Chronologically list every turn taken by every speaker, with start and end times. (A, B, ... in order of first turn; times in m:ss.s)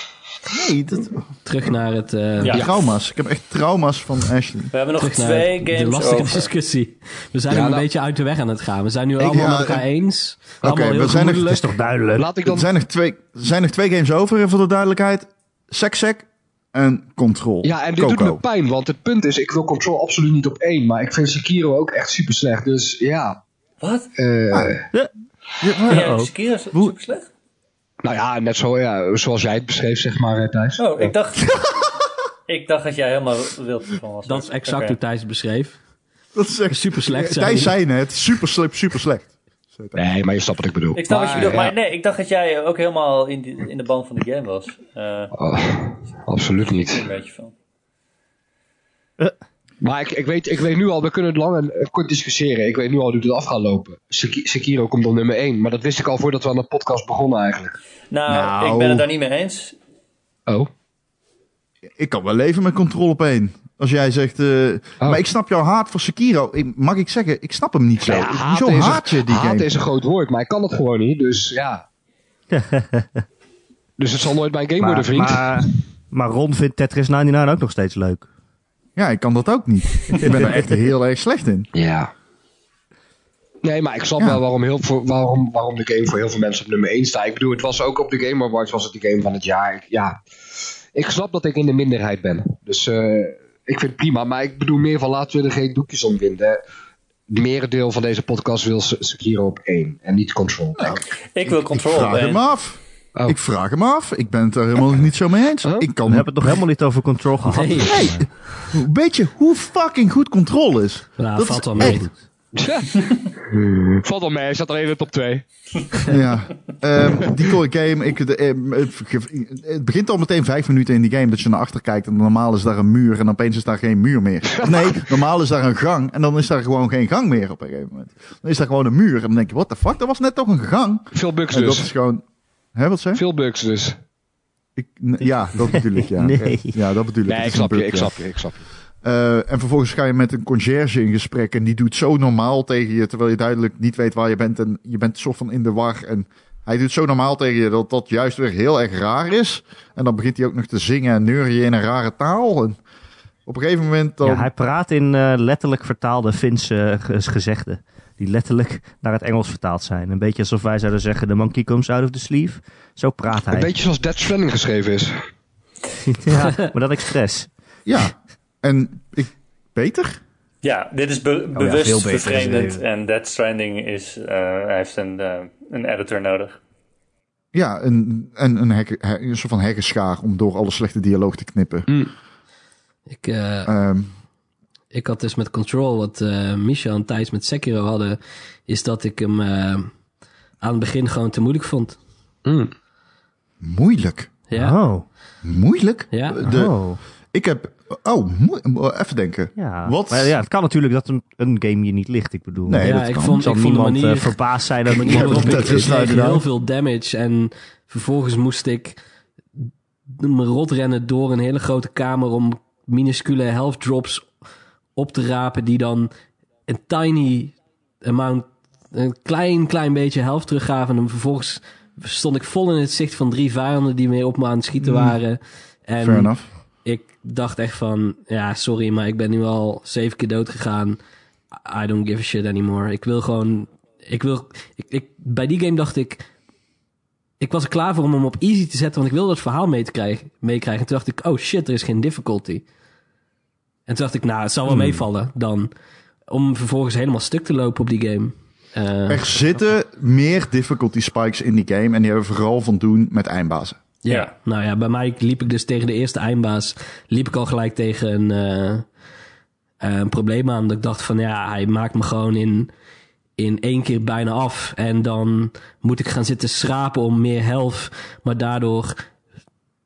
0:00.5-0:01.2 A
0:01.4-0:02.6 B
0:02.4-0:02.7 C
0:02.5-0:02.8 D
0:02.5-0:04.7 A
0:04.7-0:06.5 C
0:05.0-0:11.7 B
0:07.5-0:07.8 D
0:09.2-0:09.8 A
0:10.6-0:11.6 A
0:11.4-0:12.3 E
0:12.1-0:12.7 D
0:12.4-0:18.4 A
0:17.6-0:23.4 D
0:23.8-0:24.1 C
0:24.2-0:24.9 D
0:25.6-0:26.0 A
0:25.6-0:26.3 E
0:25.9-0:27.3 C
0:28.0-0:31.1 D
0:30.8-0:31.6 C
0:31.5-0:31.7 A
0:32.5-0:35.0 C
0:34.2-0:35.8 B
0:36.3-0:40.0 A
0:36.7-0:37.7 B
0:40.0-0:41.7 D
0:40.9-0:45.3 C
0:45.3-0:47.0 D
0:46.6-0:47.5 C
0:49.8-0:57.8 D
0:58.1-0:59.8 C
0:58.3-0:59.1 A
1:02.0-1:09.7 A
1:08.0-1:11.8 D
1:12.5-1:13.2 E
1:14.0-1:15.8 D
1:14.8-1:18.3 E
1:19.0-1:21.7 A
1:20.3-1:20.6 E
1:21.7-1:22.1 D
1:23.6-1:30.2 D
1:30.9-1:36.6 D
1:37.3-1:41.0 D
1:40.8-1:46.6 A
1:41.3-1:42.4 C
1:45.6-1:45.9 D
1:46.0-1:48.3 E
1:47.5-1:48.0 B
1:47.8-1:52.0 A
1:51.2-1:52.1 B
1:51.8-1:52.1 E
1:52.5-1:55.4 D
1:56.1-2:12.2 A
2:04.5-2:05.1 D
2:11.1-2:11.9 D
2:12.7-2:13.2 A
2:13.1-2:14.0 D
2:14.8-2:18.2 A
2:15.7-2:16.8 E
2:17.2-2:18.6 D
2:19.0-2:32.8 A
2:33.4-2:34.5 A
2:34.2-2:43.7 E
2:43.5-2:45.3 D
2:46.1-2:47.5 E
2:47.8-2:50.2 A
2:50.6-2:56.6 C
2:51.5-2:52.8 E
2:57.5-3:01.9 A
3:03.1-3:03.7 B
3:03.6-3:04.1 A
3:04.9-3:09.9 B
3:10.6-3:12.0 B
3:12.4-3:12.7 D
3:13.6-3:14.3 A
3:14.5-3:14.8 B
3:14.5-3:15.0 E
3:15.4-3:16.8 A
3:16.1-3:16.4 B
3:16.4-3:17.0 E
3:17.3-3:20.3 A
3:19.6-3:25.9 E
3:22.6-3:23.4 A
3:22.8-3:29.0 B
3:25.0-3:26.4 A
3:30.1-3:34.3 B
3:35.0-3:36.1 B
3:36.7-3:46.3 B
3:44.8-3:45.2 A
3:46.0-3:46.4 A
3:46.8-3:51.0 B
3:51.6-3:56.3 B
3:57.4-4:02.6 B
4:03.9-4:05.7 B
4:04.7-4:05.0 E
4:06.3-4:09.2 B
4:09.1-4:13.8 A
4:14.0-4:18.8 B
4:19.8-4:22.7 B
4:23.4-4:29.0 B